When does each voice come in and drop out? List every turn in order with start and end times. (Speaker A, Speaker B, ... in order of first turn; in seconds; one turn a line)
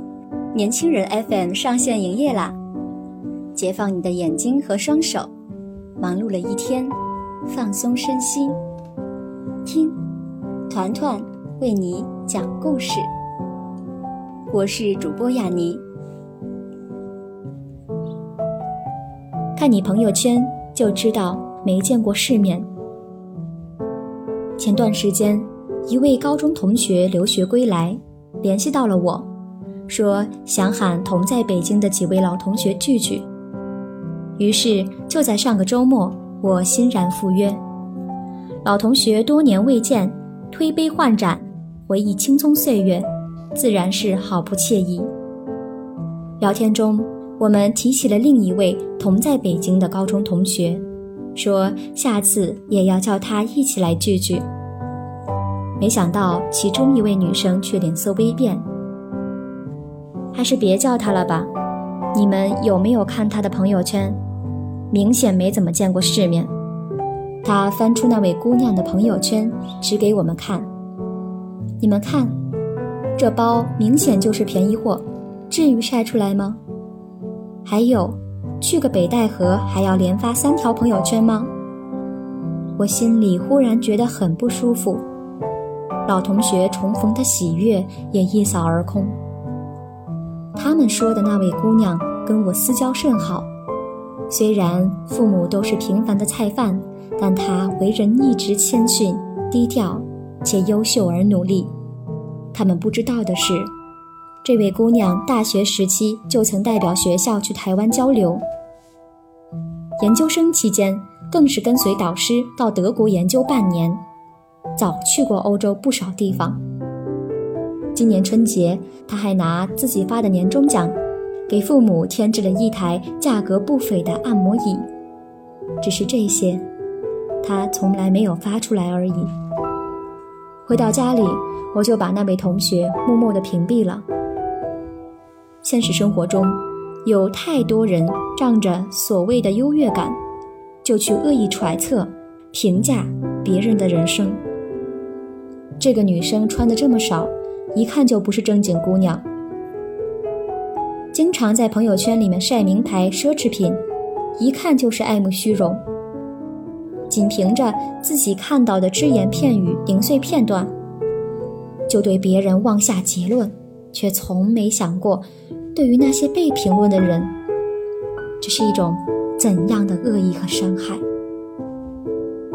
Speaker A: 0.5-2.6
Speaker A: 3.5-5.3
Speaker A: 6.0-8.6
Speaker A: 9.6-10.0
Speaker A: 10.7-13.1
Speaker A: 14.5-15.8
Speaker A: 19.5-22.7
Speaker A: 24.6-29.3
Speaker A: 29.9-33.3
Speaker A: 34.4-37.6
Speaker A: 38.6-45.1
Speaker A: 46.4-54.5
Speaker A: 55.8-58.6
Speaker A: 60.3-61.5
Speaker A: 62.1-64.2
Speaker A: 64.9-66.5
Speaker A: 67.4-70.7
Speaker A: 71.8-72.4
Speaker A: 73.2-76.6
Speaker A: 77.6-81.5
Speaker A: 82.8-85.0
Speaker A: 86.0-89.2
Speaker A: 90.5-93.5
Speaker A: 94.3-101.7
Speaker A: 102.5-103.7
Speaker A: 104.4-108.4
Speaker A: 110.0-114.0
Speaker A: 114.8-116.6
Speaker A: 117.9-121.0
Speaker A: 121.5-124.9
Speaker A: 125.8-126.7
Speaker A: 127.4-129.3
Speaker A: 130.6-134.1
Speaker A: 135.6-140.2
Speaker A: 140.8-144.4
Speaker A: 145.8-149.2
Speaker A: 151.1-153.8
Speaker A: 154.4-155.8
Speaker A: 157.1-160.7
Speaker A: 161.9-167.3
Speaker A: 168.4-171.0